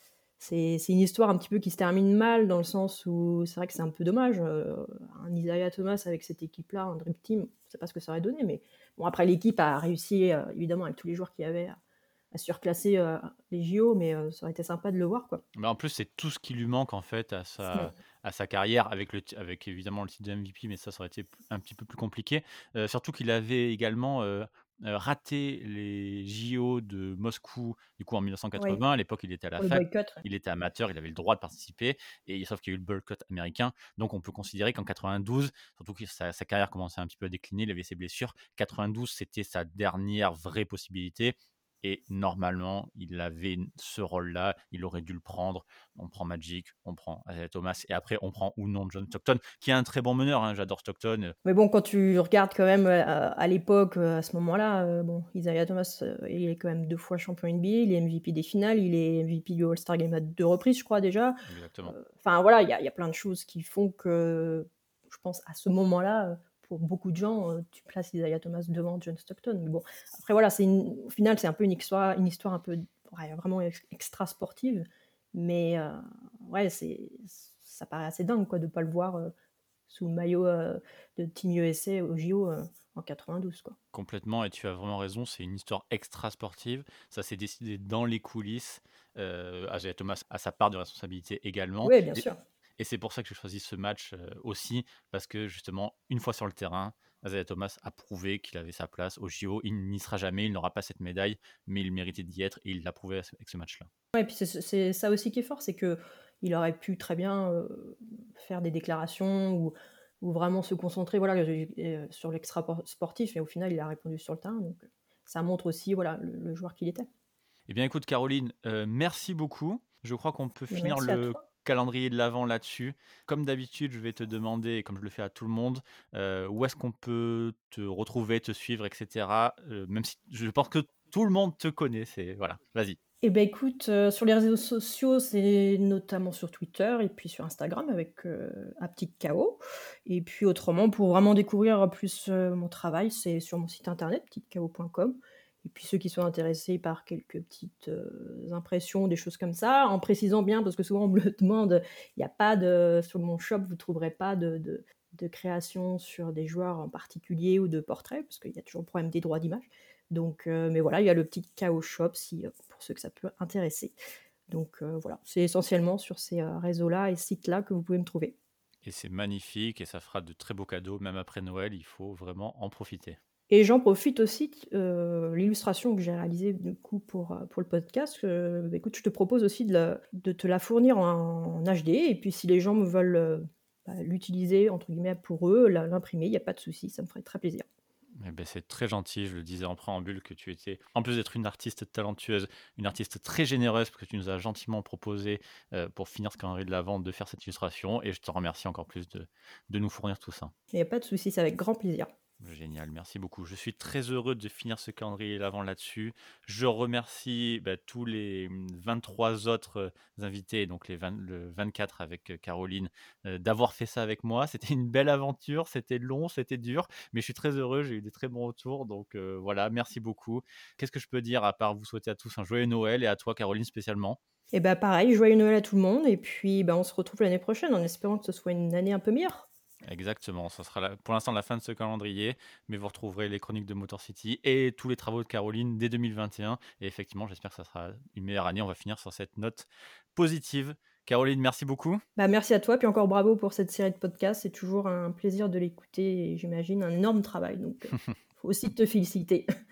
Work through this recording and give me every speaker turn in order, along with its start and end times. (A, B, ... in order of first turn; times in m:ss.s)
0:00.4-0:11.8 A
0:12.3-0:15.4 A
0:15.5-0:51.3 B
0:29.6-0:30.2 A
0:51.4-1:19.3 A
1:01.5-1:01.9 B
1:19.9-1:23.8 A
1:23.9-1:32.2 B
1:31.8-1:32.4 A
1:32.8-1:43.9 B
1:44.1-1:57.1 A
1:57.7-2:13.0 B
2:00.7-2:01.4 A
2:13.2-2:44.0 A
2:44.5-2:48.4 A
2:48.8-2:53.2 B
2:53.5-3:07.6 A
3:08.2-3:20.5 B
3:20.7-3:22.1 A
3:22.4-3:44.2 B
3:44.5-3:49.5 A
3:49.8-4:02.0 B
4:02.2-4:09.5 A